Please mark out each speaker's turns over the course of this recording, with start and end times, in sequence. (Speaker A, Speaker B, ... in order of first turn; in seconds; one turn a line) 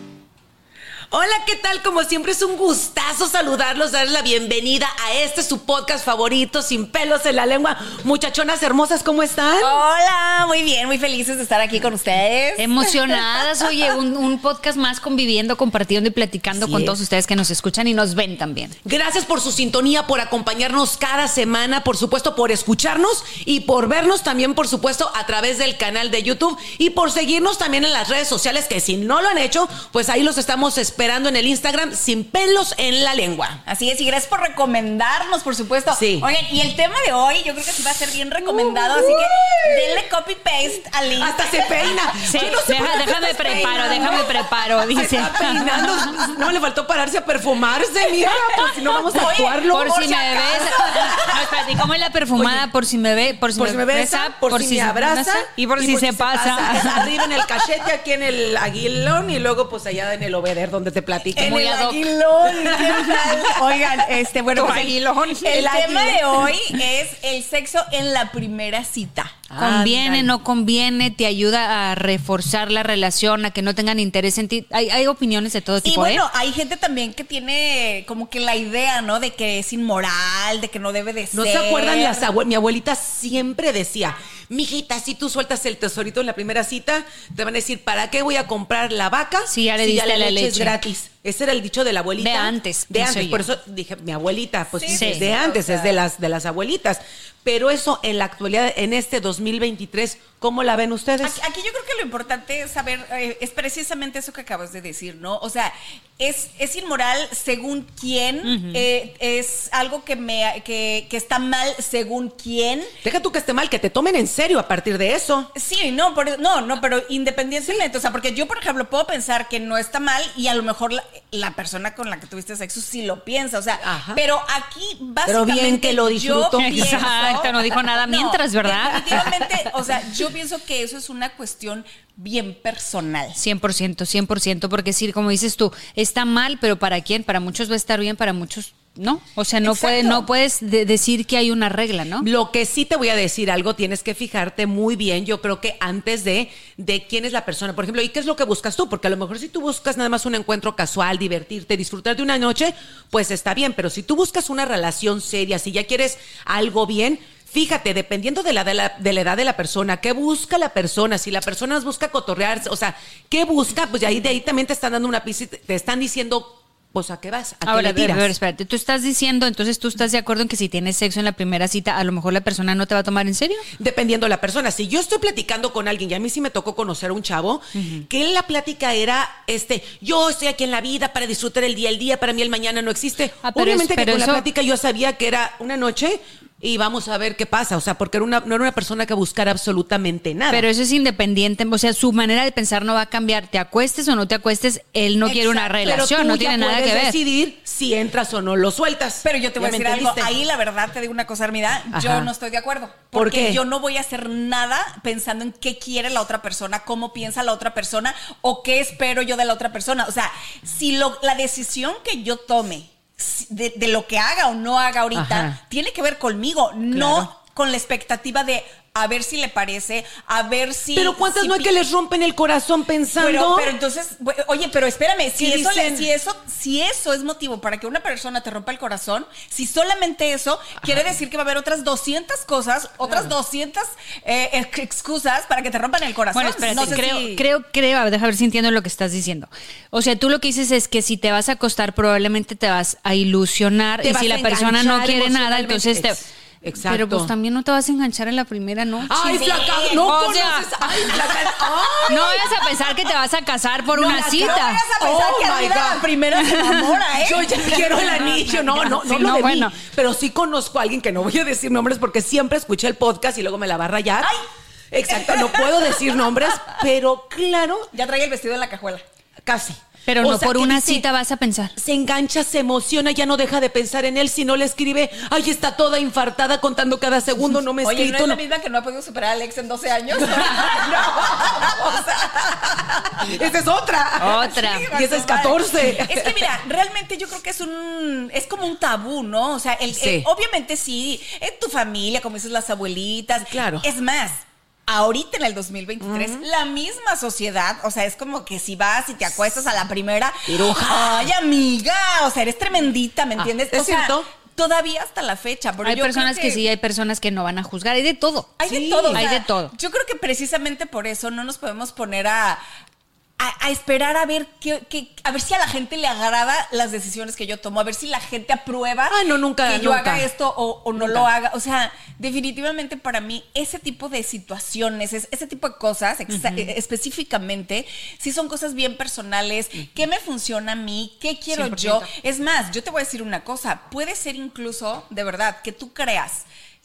Speaker A: 1.1-9.8
Speaker B: 9.6-13.2
Speaker C: 12.6-18.8
Speaker A: 16.6-17.0
Speaker A: 18.8-33.6
Speaker B: 33.7-44.5
Speaker A: 35.9-36.3
Speaker A: 38.4-40.0
Speaker A: 40.7-44.3
Speaker C: 42.2-45.7
Speaker A: 44.9-51.4
Speaker B: 45.6-46.3
Speaker B: 48.0-51.4
Speaker C: 49.7-57.1
Speaker A: 52.4-52.7
Speaker A: 53.6-61.7
Speaker B: 61.3-69.4
Speaker C: 61.4-62.1
Speaker A: 62.4-63.9
Speaker C: 64.5-65.6
Speaker A: 65.5-66.5
Speaker A: 69.5-70.3
Speaker C: 69.6-76.2
Speaker B: 75.8-82.3
Speaker A: 81.3-101.4
Speaker C: 89.5-90.8
Speaker C: 92.2-93.5
Speaker B: 94.8-96.0
Speaker C: 94.9-95.3
Speaker B: 101.2-112.9
Speaker C: 108.5-108.8
Speaker A: 113.0-115.5
Speaker B: 115.5-133.4
Speaker A: 123.8-124.2
Speaker A: 125.2-127.1
Speaker C: 126.6-129.3
Speaker A: 129.1-129.7
Speaker C: 133.4-142.3
Speaker B: 139.6-140.3
Speaker A: 142.2-168.3
Speaker C: 167.7-173.7
Speaker A: 173.8-190.7
Speaker C: 177.8-178.1
Speaker C: 183.4-184.4
Speaker C: 190.5-197.2
Speaker B: 195.2-196.0
Speaker A: 195.8-200.3
Speaker B: 199.2-221.7
Speaker A: 201.9-202.3
Speaker A: 203.1-203.6
Speaker A: 215.1-215.6
Speaker A: 216.9-217.3
Speaker A: 220.9-223.8
Speaker B: 223.2-237.5
Speaker A: 225.3-226.1
Speaker C: 236.3-246.2
Speaker A: 236.7-237.0
Speaker A: 244.0-247.3
Speaker C: 246.8-249.1
Speaker A: 249.1-252.4
Speaker B: 249.1-250.2
Speaker C: 250.0-250.7
Speaker B: 251.9-252.4
Speaker C: 252.1-254.8
Speaker A: 253.9-256.1
Speaker B: 254.3-258.4
Speaker C: 256.4-256.9
Speaker A: 257.2-264.3
Speaker C: 258.1-259.8
Speaker A: 264.9-267.9
Speaker B: 265.1-266.8
Speaker B: 267.9-269.0
Speaker A: 269.4-271.1
Speaker C: 270.1-271.8
Speaker A: 271.8-278.4
Speaker B: 277.8-282.8
Speaker A: 280.1-282.0
Speaker A: 283.1-286.5
Speaker C: 284.2-284.9
Speaker B: 284.2-306.6
Speaker A: 289.9-290.3
Speaker A: 293.4-293.9
Speaker A: 296.0-296.4
Speaker A: 300.5-301.3
Speaker A: 303.4-304.3
Speaker C: 305.8-308.6
Speaker B: 308.6-312.6
Speaker A: 308.7-309.3
Speaker C: 309.1-309.7
Speaker B: 313.4-336.5
Speaker A: 319.1-320.3
Speaker A: 321.0-321.3
Speaker C: 326.3-326.7
Speaker C: 331.5-332.1